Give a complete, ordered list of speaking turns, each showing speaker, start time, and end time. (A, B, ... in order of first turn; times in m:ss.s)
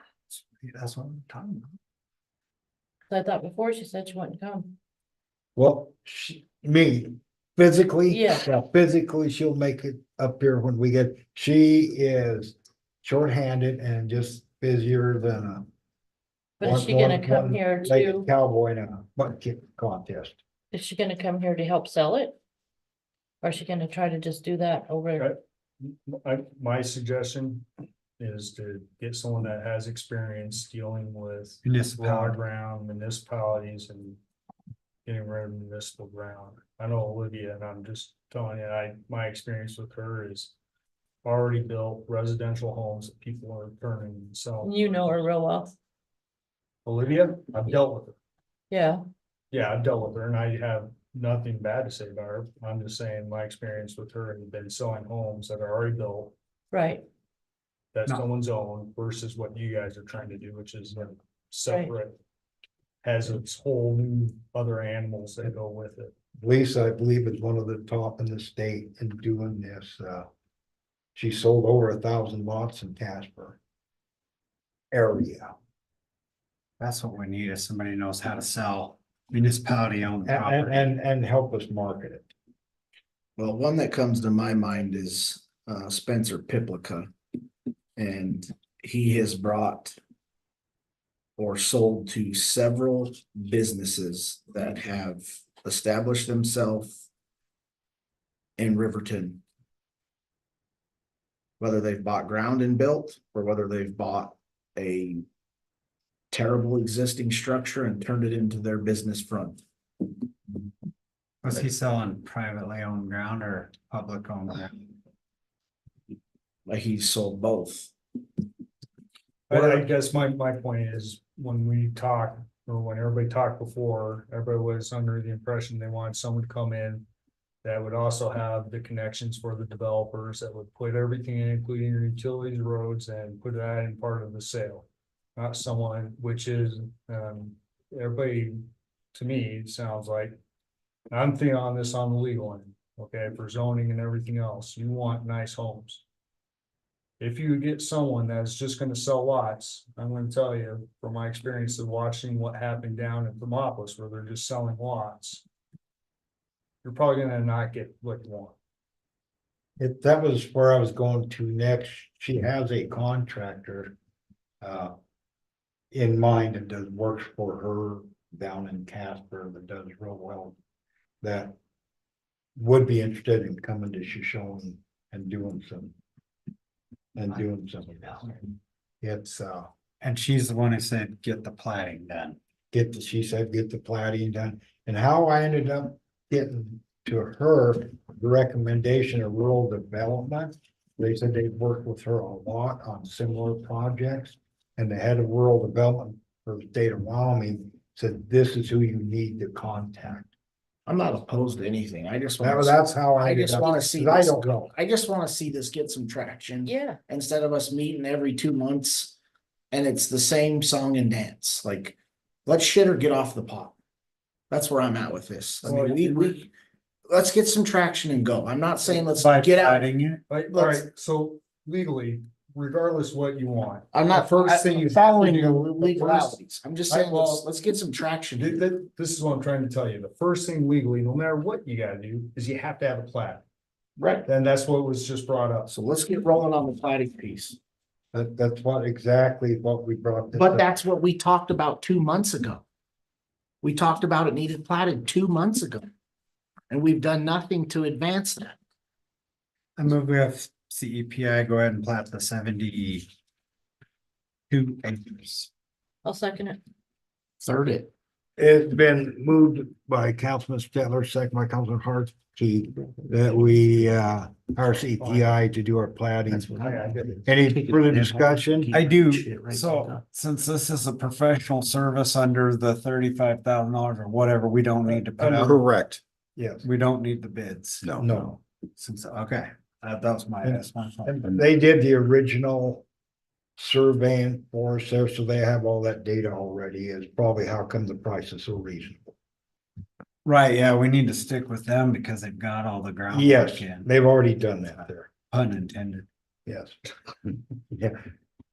0:00.3-0:01.7 A
0:03.1-0:04.7 B
0:05.6-0:15.7 C
0:08.1-0:08.4 B
0:16.6-0:18.3 B
0:16.6-0:20.4 C
0:20.7-0:22.4 B
0:23.4-0:25.3 B
0:25.2-0:27.6 D
0:28.2-0:34.2 D
0:31.6-0:32.4 A
0:35.0-0:40.5 D
0:41.2-0:45.1 D
0:44.6-0:45.7 B
0:46.8-0:48.2 D
0:48.7-0:49.0 B
0:49.5-0:56.3 D
0:56.7-0:57.0 B
0:57.9-1:02.1 D
1:03.0-1:06.1 D
1:06.4-1:10.3 C
1:11.1-1:13.6 C
1:14.9-1:15.5 C
1:16.8-1:20.9 A
1:20.2-1:22.3 C
1:23.4-1:27.1 E
1:28.0-1:30.0 E
1:31.4-1:37.0 E
1:38.6-1:39.4 E
1:41.6-1:45.2 E
1:46.3-1:49.6 E
1:51.4-1:54.8 A
1:56.7-1:57.9 E
1:59.5-2:07.0 D
1:59.5-1:59.8 E
2:07.6-2:18.6 D
2:19.1-2:20.3 D
2:21.1-2:26.0 D
2:27.2-2:35.4 D
2:36.8-2:38.6 D
2:39.8-2:43.9 C
2:44.6-2:44.9 C
2:45.9-2:50.6 C
2:51.2-2:51.5 C
2:52.6-2:55.9 C
2:57.1-2:58.4 C
2:59.0-2:59.7 C
3:00.0-3:02.4 A
3:02.7-3:20.3 C
3:20.8-3:29.1 E
3:22.4-3:24.7 C
3:26.6-3:27.0 B
3:29.7-3:33.8 E
3:34.5-3:36.5 E
3:35.6-3:36.4 D
3:37.1-3:39.9 E
3:39.1-3:40.2 A
3:40.3-3:46.4 D
3:40.5-3:40.8 E
3:43.9-3:48.6 E
3:46.9-3:47.4 D
3:48.4-3:53.4 D
3:54.0-3:54.3 E
3:54.2-3:55.7 D
3:55.7-3:57.6 E
3:58.1-4:00.6 C
4:00.3-4:02.6 E
4:03.6-4:05.9 E
4:06.7-4:08.6 E
4:09.8-4:13.1 A
4:14.5-4:15.5 A
4:16.0-4:16.6 B
4:17.4-4:17.9 E
4:18.4-4:26.6 C
4:25.0-4:25.4 D
4:26.3-4:30.0 E
4:26.6-4:27.1 D
4:27.2-4:28.7 C
4:28.7-4:35.7 A
4:35.2-4:35.6 C
4:36.4-4:36.6 C
4:36.6-4:41.3 A
4:37.9-4:38.4 C
4:40.4-4:42.8 C
4:43.6-4:49.1 C
4:50.2-4:53.9 A
4:53.1-4:55.1 C
4:55.1-4:56.1 A
4:56.4-4:56.8 C